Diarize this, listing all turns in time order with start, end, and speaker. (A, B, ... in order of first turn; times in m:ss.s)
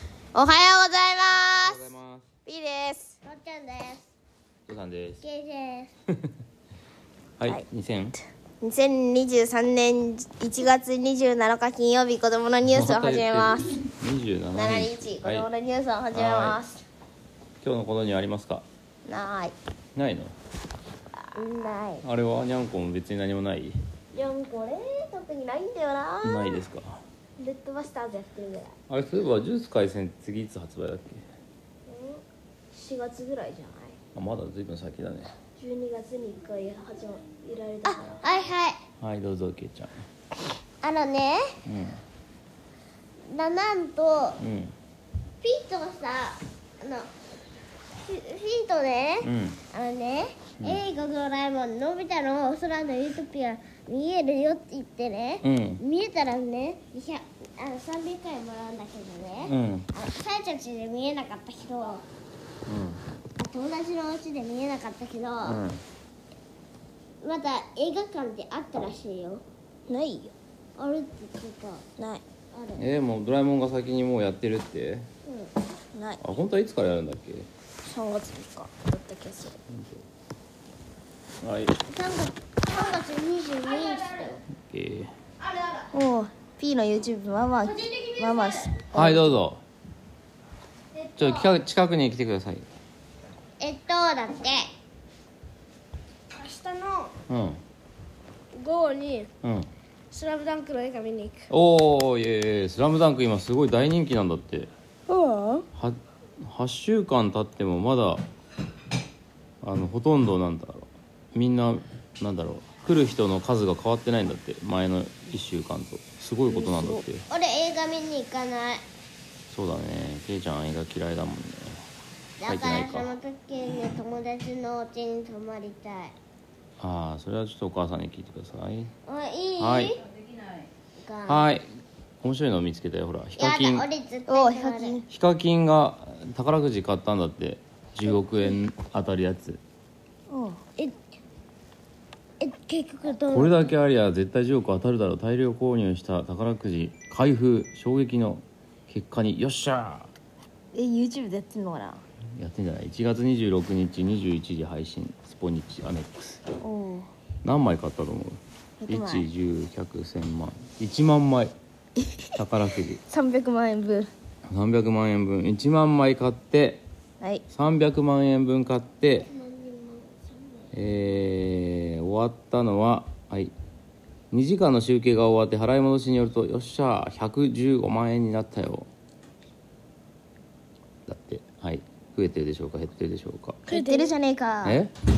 0:00.3-0:01.8 A
0:01.6-0:02.2 B
0:02.4-0:03.2 A
0:03.2-0:04.1 C
0:04.6-0:05.2 B
0:05.2-0:05.9 C
0:07.4-0:08.2 B
0:08.6-0:13.8 A
0:12.6-0:15.5 B
0:14.5-0:16.8 A
0:16.1-0:16.6 B
0:17.6-0:18.6 B
0:19.0-0:19.5 A
0:19.9-0:20.3 B
0:21.3-0:21.8 A
0:21.4-0:22.0 C
0:22.0-0:23.7 B
0:24.1-0:26.6 A
0:26.2-0:27.0 B
0:27.4-0:28.7 A
0:28.9-0:31.2 B
0:31.9-0:34.0 A
0:34.1-0:35.3 B
0:35.6-0:38.2 A
0:37.8-0:38.8 C
0:39.0-0:40.0 B
0:40.8-0:41.4 C
0:41.6-0:42.0 B
0:43.2-0:44.4 C
0:44.4-0:44.7 B
0:45.4-0:47.1 C
0:48.0-1:02.0 C
0:49.2-0:49.6 B
0:55.4-0:55.8 B
0:59.4-0:59.9 B
1:02.7-1:03.0 B
1:03.4-1:05.6 C
1:05.4-1:05.8 B
1:07.2-1:09.4 C
1:09.9-1:10.3 A
1:10.8-1:11.8 C
1:12.0-1:12.2 A
1:12.5-1:12.8 C
1:12.8-1:15.1 B
1:15.2-1:15.5 C
1:15.9-1:16.2 A
1:16.2-1:17.5 B
1:17.8-1:19.6 A
1:19.7-1:20.0 B
1:21.4-1:21.8 B
1:21.9-1:24.4 C
1:24.5-1:25.1 B
1:25.9-1:29.4 A
1:28.9-1:29.6 B
1:31.1-1:32.6 B
1:33.6-1:34.6 C
1:36.3-1:37.1 D
1:37.3-1:37.6 B
1:38.5-1:39.3 D
1:39.4-1:39.7 B
1:40.1-1:41.4 D
1:41.5-1:44.7 B
1:45.1-1:45.6 D
1:45.7-1:48.2 B
1:49.6-1:57.2 B
1:56.5-1:57.0 A
1:57.3-1:58.8 C
1:59.5-2:01.8 B
2:02.4-2:06.1 C
2:02.5-2:03.1 B
2:06.8-2:08.9 B
2:09.0-2:10.0 C
2:09.6-2:10.0 B
2:11.0-2:11.5 C
2:11.2-2:11.6 B
2:12.2-2:13.8 B
2:13.4-2:15.0 C
2:14.3-2:15.0 A
2:15.1-2:19.6 B
2:20.3-2:20.6 A
2:22.4-2:23.7 C
2:23.3-2:30.1 B
2:30.7-2:32.0 A
2:32.4-2:36.4 B
2:36.6-2:37.1 A
2:37.4-2:41.5 B
2:38.8-2:39.3 A
2:42.3-2:43.0 B
2:43.1-2:44.1 A
2:44.5-2:46.8 B
2:47.5-2:49.3 B
2:49.3-2:50.7 C
2:50.7-2:53.5 B
2:54.3-2:58.9 B
3:01.1-3:03.6 B
3:03.7-3:04.8 A
3:03.7-3:04.1 D
3:04.6-3:04.9 B